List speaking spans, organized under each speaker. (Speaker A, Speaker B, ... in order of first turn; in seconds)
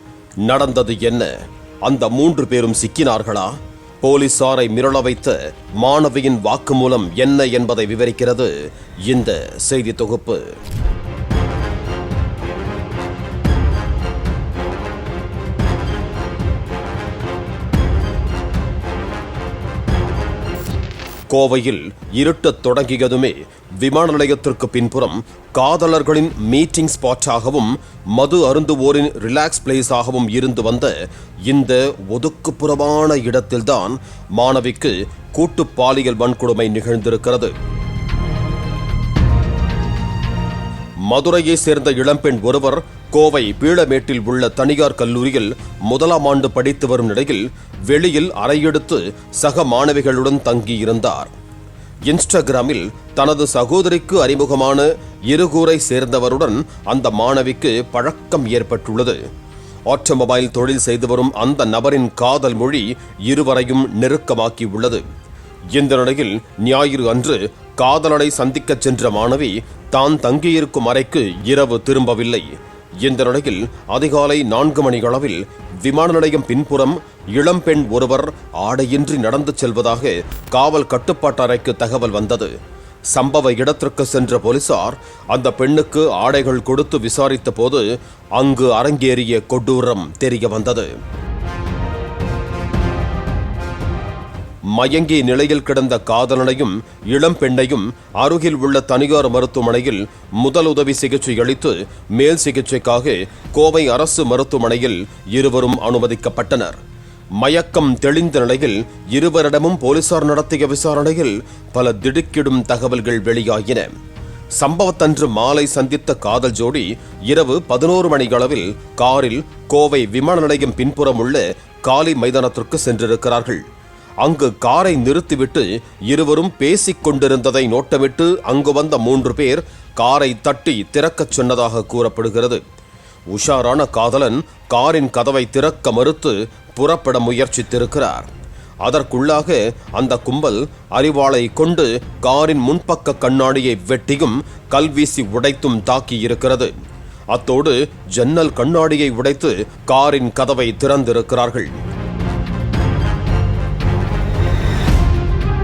Speaker A: 0.4-1.3, 1.8-8.5, 9.1-10.6, 21.3-37.5, 41.1-51.3, 52.0-59.2, 59.9-65.0, 65.7-72.5, 73.0-82.5, 83.1-90.9, 94.7-106.8, 107.4-113.9, 114.6-123.6, 124.2-132.6, 133.3-138.3, 138.8-146.7, 147.3-151.7